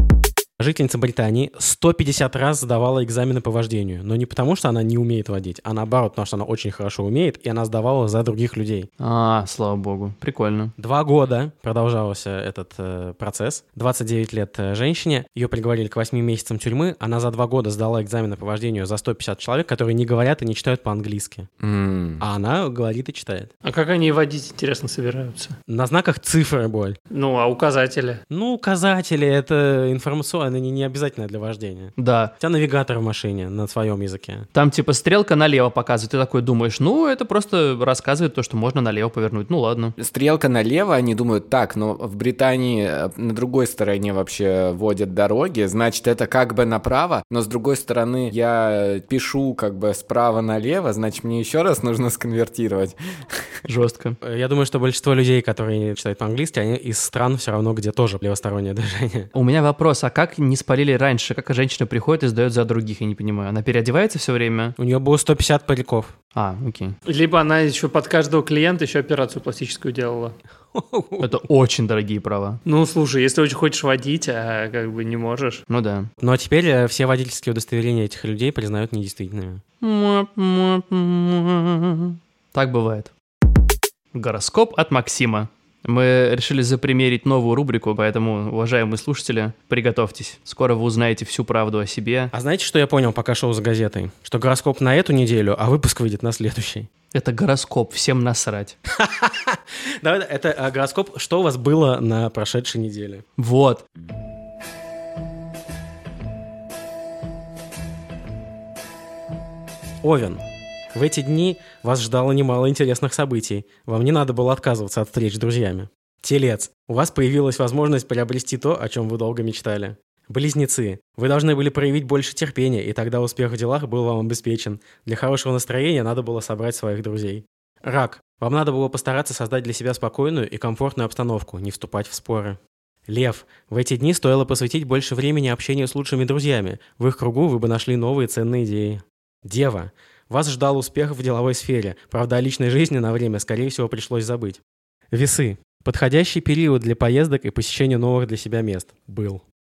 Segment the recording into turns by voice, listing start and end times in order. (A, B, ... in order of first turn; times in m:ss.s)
0:00.6-0:08.9 A
0:09.0-0:10.7 B
0:10.8-0:21.5 A
0:21.6-0:22.2 C
0:22.2-0:23.5 A
0:23.6-0:25.6 D
0:25.7-0:27.0 A
0:27.1-0:28.2 D
0:28.3-0:34.5 A
0:32.0-0:32.3 B
0:34.5-0:39.9 B
0:40.0-0:52.9 C
0:53.7-0:54.2 B
0:54.2-0:59.3 A
0:59.3-1:04.7 B
1:04.8-1:06.1 A
1:06.3-1:07.0 B
1:07.0-1:10.3 D
1:10.7-1:11.3 A
1:11.2-1:12.6 B
1:12.6-1:15.6 D
1:15.7-1:16.1 B
1:16.2-1:19.6 A
1:19.8-1:23.1 B
1:24.1-1:32.3 B
1:32.3-1:36.9 A
1:37.1-1:38.8 B
1:38.9-1:43.2 A
1:43.4-1:43.8 B
1:50.0-1:50.4 A
1:50.9-2:24.6 A
2:25.1-2:29.4 A